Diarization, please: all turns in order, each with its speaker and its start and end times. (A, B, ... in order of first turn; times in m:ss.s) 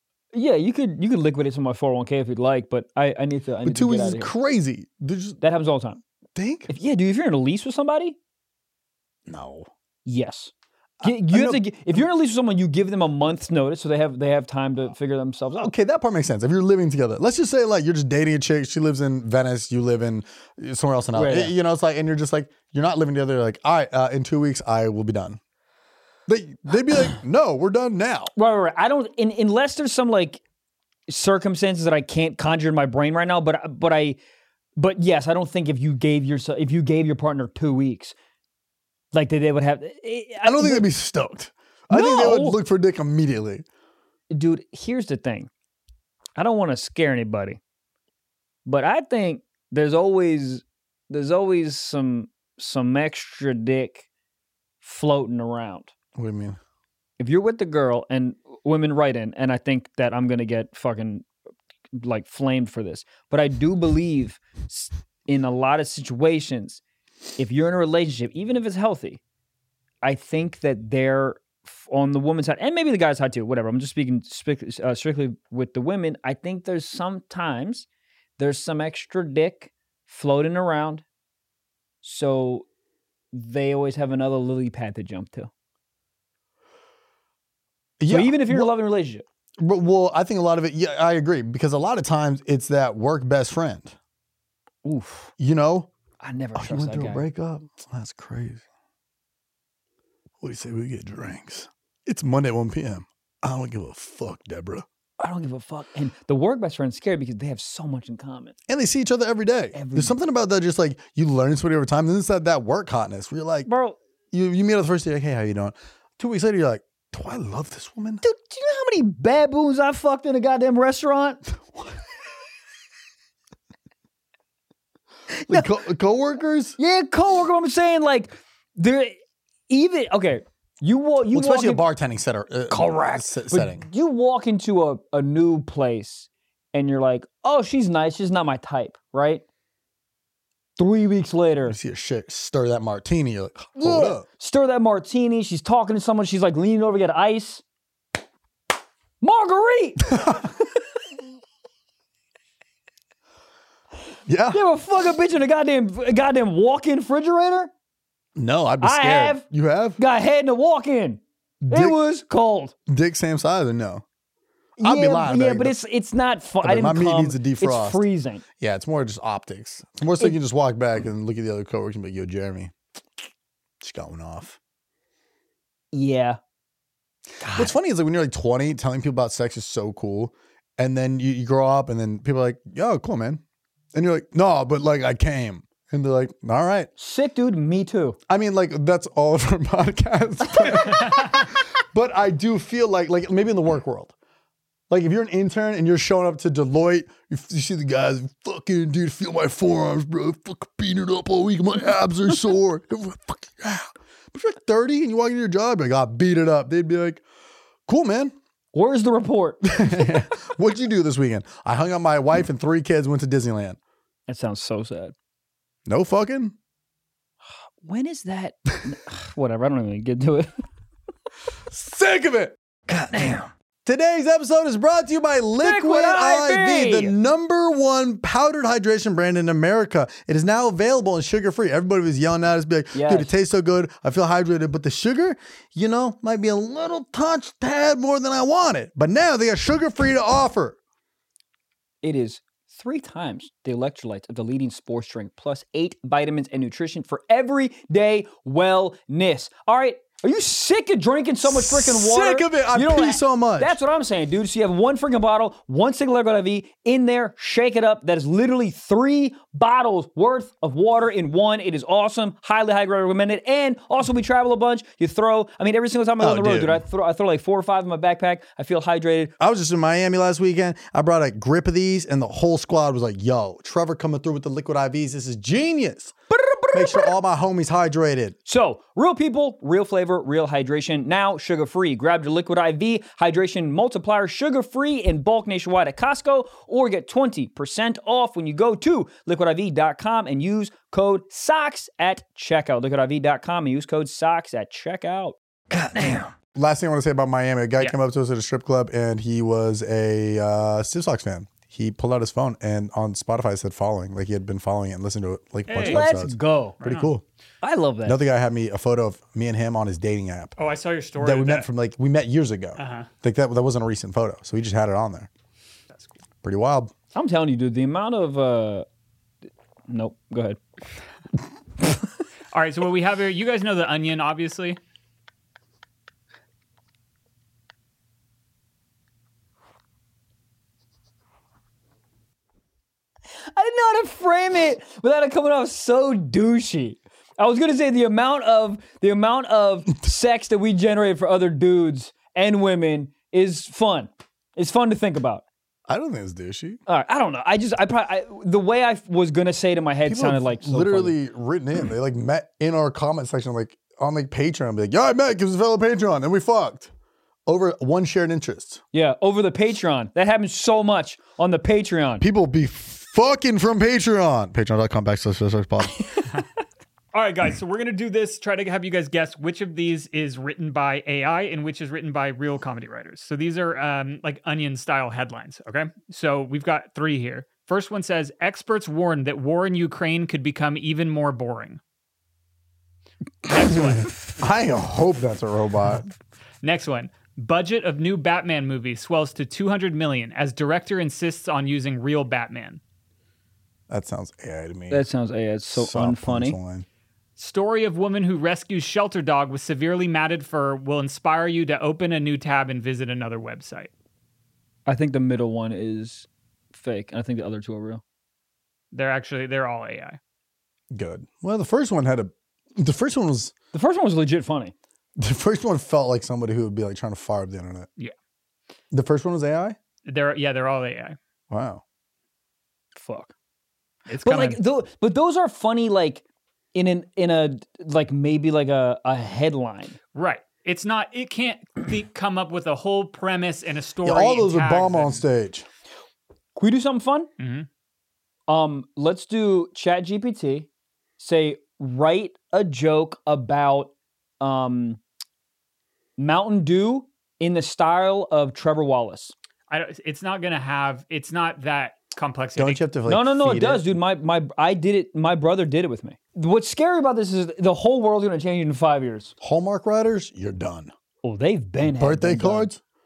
0:00.3-0:04.3 A
0:03.6-0:05.4 B
0:05.4-0:06.0 A
0:06.4-0:06.7 B
0:06.7-0:08.2 A
0:09.3-0:09.7 B
0:10.1-0:10.5 A
0:11.0-0:12.0 B
0:11.0-0:15.7 A
0:15.6-0:25.4 B
0:21.1-0:21.5 A
0:26.3-0:28.3 B
0:28.4-0:30.4 A
0:31.1-0:34.2 A
0:34.8-0:38.2 A
0:39.1-0:40.9 A
0:40.4-0:43.6 B
0:41.9-0:42.6 A
0:44.3-0:45.5 A
0:46.4-0:47.6 A
0:48.7-0:54.1 A
0:54.8-0:55.9 A
0:56.2-0:56.6 B
0:57.2-1:01.3 A
1:01.9-1:06.8 A
1:07.4-1:09.2 A
1:10.0-1:17.9 A
1:18.4-1:21.0 A
1:22.0-1:22.7 A
1:23.3-1:25.5 A
1:28.0-1:28.7 B
1:28.1-1:29.2 A
1:29.6-1:34.0 B
1:34.8-1:35.3 A
1:35.4-1:35.9 B
1:36.2-1:37.3 A
1:36.6-1:38.6 B
1:40.4-1:44.8 B
1:45.2-1:48.6 A
1:48.7-1:53.7 B
1:49.7-1:50.2 A
1:53.7-1:54.0 A
1:54.3-1:58.2 B
1:58.2-2:01.4 A
2:05.3-2:05.7 A
2:05.5-2:06.8 B
2:06.8-2:09.2 A
2:09.7-2:11.8 A
2:11.3-2:13.8 B
2:12.7-2:19.4 A
2:20.8-2:21.8 A
2:21.7-2:24.2 B
2:23.8-2:27.6 A
2:29.2-2:30.6 A
2:34.3-2:34.6 B
2:34.5-2:37.7 A
2:38.4-2:40.0 B
2:38.8-2:39.4 A
2:40.0-2:42.7 A
2:41.6-2:42.0 B
2:42.9-2:44.0 B
2:44.8-2:45.8 B
2:44.8-2:48.4 A
2:46.6-2:48.0 B
2:48.6-2:52.7 B
2:53.8-2:54.6 B
2:55.9-2:56.4 A
2:57.4-2:57.8 A
2:57.5-3:03.4 B
3:03.9-3:06.9 B
3:07.0-3:08.2 A
3:08.3-3:14.1 B
3:14.9-3:27.2 B
3:27.9-3:28.4 B
3:28.7-3:30.2 A
3:29.6-3:33.8 B
3:34.3-3:35.1 A
3:35.9-3:36.6 B
3:37.8-3:40.6 A
3:41.7-3:42.6 B
3:42.9-3:43.5 A
3:43.8-4:00.8 B
3:45.6-3:47.2 A
3:52.9-3:53.3 A
4:02.0-4:29.3 A
4:11.4-4:13.8 B
4:26.2-4:26.8 B
4:29.4-4:36.1 B
4:36.3-4:37.1 A
4:36.7-4:38.4 B
4:38.5-4:56.3 A
4:56.5-5:07.2 B
5:05.7-5:06.0 C
5:05.8-5:06.8 A
5:06.8-5:07.1 C
5:07.6-5:08.2 A
5:08.0-5:10.6 B
5:10.6-5:11.7 C
5:11.2-5:15.3 B
5:12.8-5:13.1 C
5:16.4-5:16.9 B
5:17.1-5:18.9 A
5:19.9-5:20.6 A
5:22.5-5:24.8 C
5:33.5-5:45.4 A
5:45.9-5:46.8 B
5:46.9-5:51.2 A
5:50.1-5:56.9 B
5:57.5-5:58.8 B
5:58.9-6:02.2 A
6:02.2-6:06.2 B
6:07.1-6:21.8 C
6:23.4-6:24.2 C
6:24.3-6:26.1 B
6:26.6-6:32.8 C
6:33.9-6:35.0 B
6:34.9-6:36.6 A
6:35.7-6:36.9 B
6:37.4-6:43.9 C
6:44.9-6:48.0 A
6:48.9-6:50.2 C
6:50.9-6:53.5 B
6:53.7-6:54.7 A
6:55.2-6:57.9 B
6:58.9-6:59.8 B
7:00.1-7:01.2 C
7:01.5-7:01.8 B
7:03.0-7:03.3 A
7:04.1-7:04.6 C
7:04.2-7:10.0 A
7:10.2-7:15.2 C
7:14.0-7:15.7 B
7:16.6-7:17.3 A
7:17.4-7:17.7 C
7:18.5-7:20.7 A
7:21.2-7:25.0 A
7:26.2-7:29.3 A
7:29.7-7:32.8 C
7:32.6-7:33.9 B
7:33.1-7:39.3 A
7:39.4-7:40.9 B
7:41.2-7:42.7 A
7:41.8-7:42.8 B